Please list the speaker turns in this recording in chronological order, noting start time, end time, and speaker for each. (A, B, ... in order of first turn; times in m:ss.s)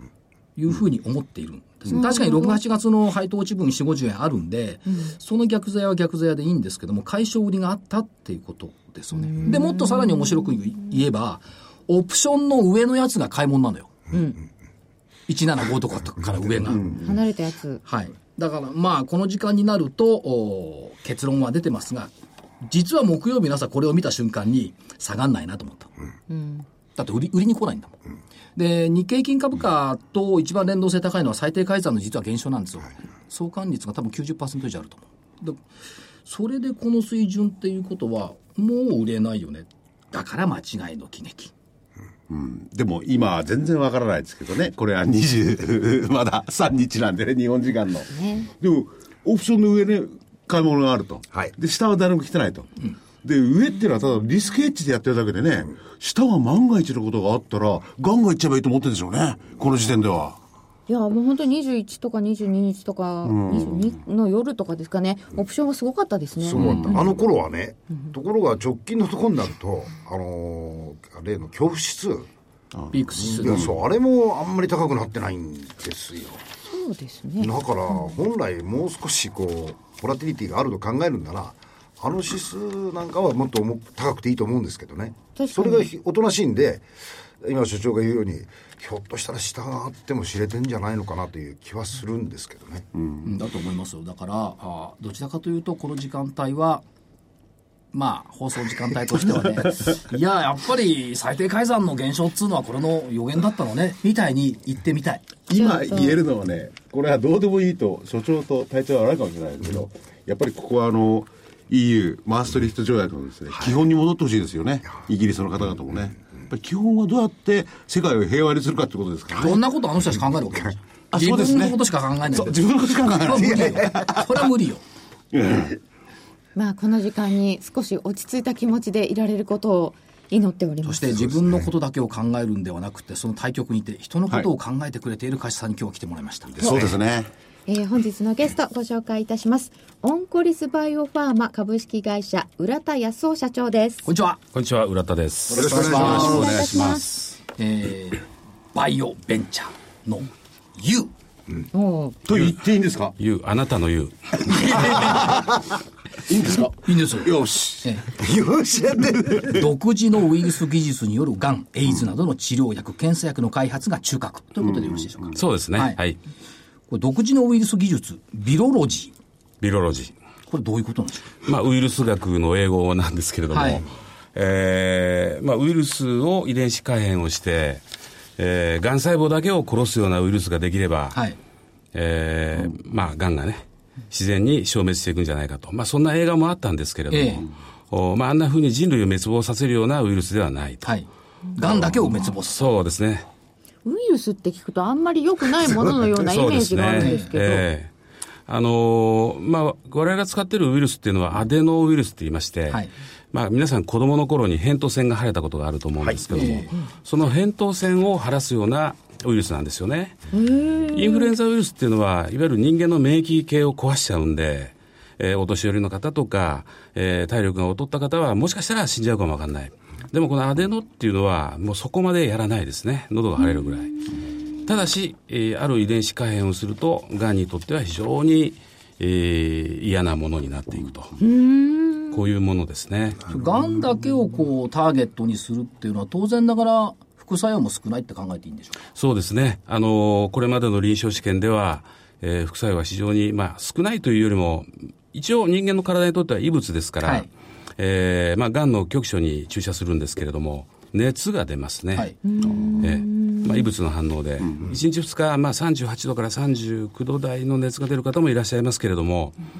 0:00.6-0:13.9 A
0:01.9-0:02.6 B
0:09.1-0:10.2 B
0:14.1-0:14.4 B
0:15.3-0:16.8 A
0:16.9-0:17.8 B
0:17.8-0:22.1 A
0:22.6-0:25.9 A
0:26.3-0:26.6 B
0:27.0-0:27.9 A
0:28.6-0:35.6 A
0:36.2-0:41.5 A
0:42.3-0:52.7 C
0:48.1-0:48.5 B
0:53.2-1:00.4 C
1:00.9-1:07.1 B
1:03.2-1:04.0 C
1:06.4-1:12.3 D
1:06.5-1:07.0 C
1:12.7-1:13.5 C
1:12.9-1:13.7 A
1:13.2-1:16.4 D
1:16.7-1:17.5 B
1:17.4-1:26.8 D
1:25.4-1:25.9 B
1:27.4-1:32.9 D
1:32.9-1:33.3 C
1:33.2-1:36.8 A
1:37.9-1:45.4 A
1:45.5-1:59.6 C
1:45.5-1:46.2 B
1:59.3-2:04.8 A
2:01.1-2:01.8 C
2:02.3-2:04.2 C
2:03.3-2:04.1 D
2:05.3-2:05.8 C
2:06.6-2:11.2 B
2:10.8-2:16.9 A
2:16.6-2:17.3 C
2:17.7-2:24.0 B
2:24.0-2:24.4 A
2:24.5-2:27.3 E
2:25.5-2:26.7 A
2:25.6-2:26.3 C
2:25.8-2:27.2 B
2:27.5-2:31.1 A
2:31.7-2:32.2 B
2:32.2-2:33.1 C
2:33.2-2:34.9 E
2:34.5-2:35.6 C
2:36.2-2:38.0 C
2:36.8-2:37.3 A
2:38.1-2:39.7 D
2:39.4-2:46.0 A
2:44.6-2:45.2 C
2:45.3-2:46.2 E
2:46.9-2:49.1 A
2:49.6-2:50.1 E
2:50.5-2:51.3 A
2:51.4-2:57.8 E
2:53.5-2:53.8 A
2:58.4-3:01.2 E
3:01.9-3:10.9 E
3:07.1-3:07.4 A
3:10.8-3:12.7 A
3:12.4-3:13.2 E
3:13.8-3:17.6 B
3:16.2-3:17.9 E
3:16.9-3:17.3 A
3:18.5-3:30.2 E
3:26.3-3:26.7 A
3:30.3-3:31.3 B
3:30.9-3:43.9 E
3:44.6-3:51.1 E
3:51.2-3:52.2 B
3:52.1-3:53.2 E
3:53.3-3:58.8 A
3:58.9-4:12.1 E
4:12.2-4:13.6 B
4:12.8-4:19.4 E